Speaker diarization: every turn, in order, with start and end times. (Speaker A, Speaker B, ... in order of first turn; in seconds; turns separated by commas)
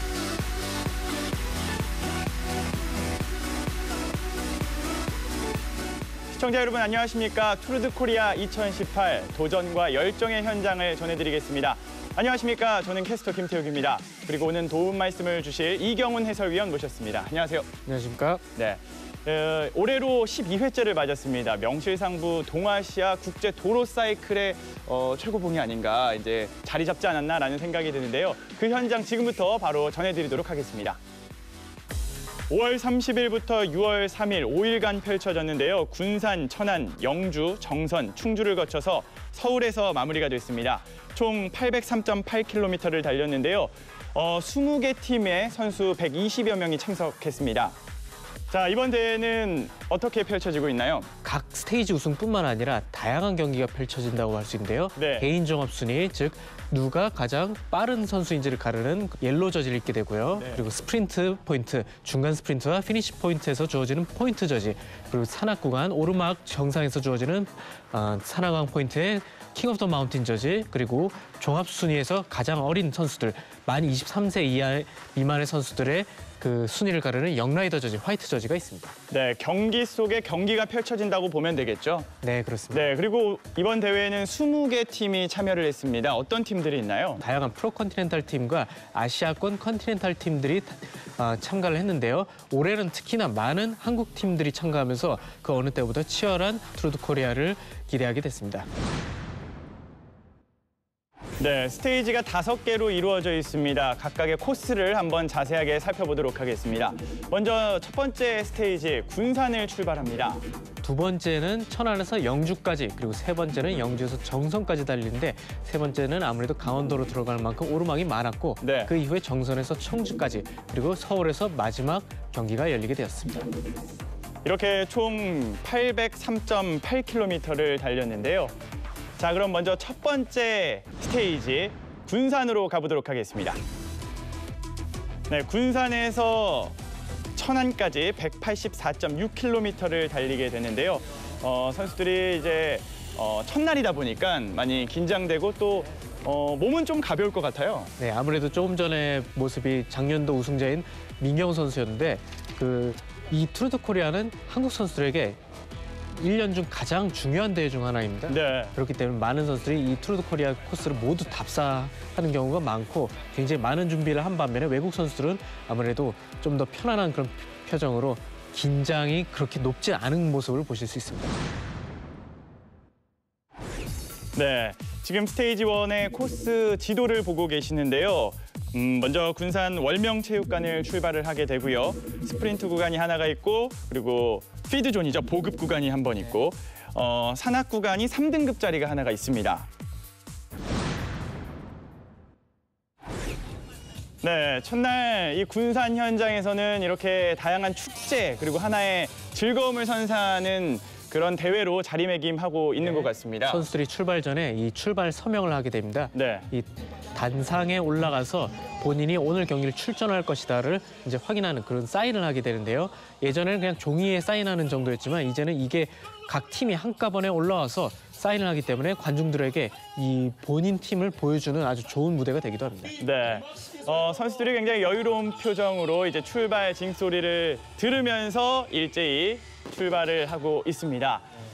Speaker A: 6.3-17.7, Speaker B: 17.9-18.4, Speaker A: 18.6-31.0, Speaker A: 32.5-47.8, Speaker A: 48.5-51.1, Speaker B: 51.2-79.0, Speaker A: 55.0-55.3, Speaker A: 60.4-60.6, Speaker A: 79.1-82.1, Speaker B: 82.2-82.9, Speaker A: 82.7-87.2, Speaker B: 87.2-98.7, Speaker A: 101.4-110.4, Speaker B: 110.8-123.5, Speaker A: 118.6-118.9, Speaker A: 124.4-128.5, Speaker A: 129.2-133.6, Speaker A: 135.3-136.8, Speaker A: 137.3-147.9, Speaker B: 148.0-155.4, Speaker B: 156.1-171.4, Speaker A: 158.3-158.8, Speaker A: 174.3-189.7, Speaker A: 194.2-203.7, Speaker B: 202.8-223.0, Speaker A: 206.1-206.5, Speaker A: 223.0-231.3